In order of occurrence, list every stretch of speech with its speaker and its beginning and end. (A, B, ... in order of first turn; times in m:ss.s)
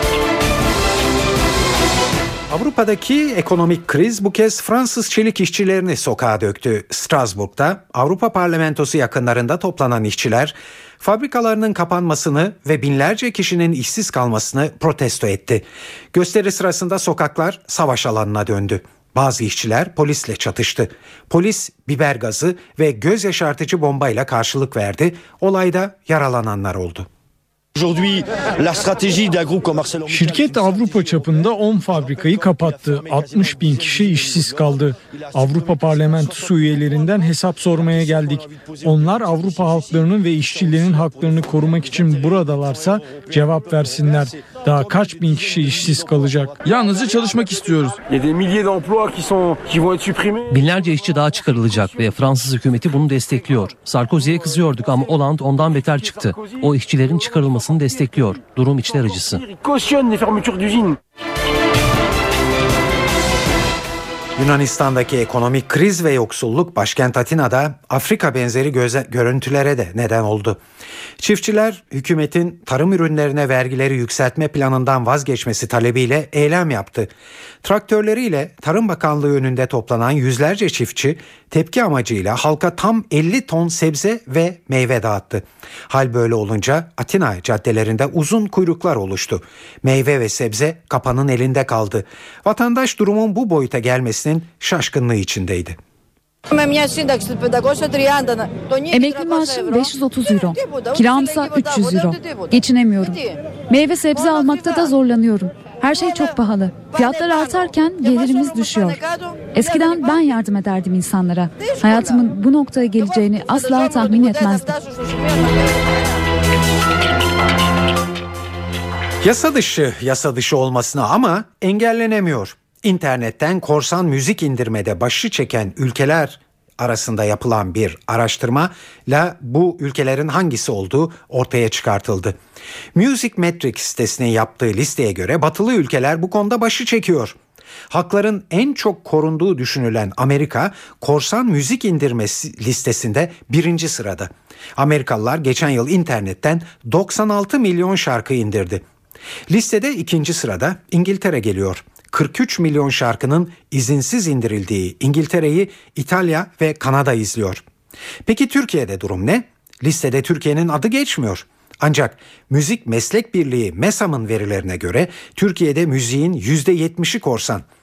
0:02.5-0:27.1 A
0:27.8-0:30.3 B
0:30.1-0:46.8 C
0:46.7-0:47.4 B
0:47.5-0:47.9 C
0:50.6-0:56.3 D
0:57.0-0:59.3 D
1:04.4-1:10.6 A
1:11.2-1:17.1 A
1:17.6-1:35.8 A
1:38.9-1:54.8 E
1:59.2-2:12.4 A
2:12.9-2:17.4 A
2:17.9-2:28.8 A
2:29.5-2:37.6 A
2:38.2-2:47.6 A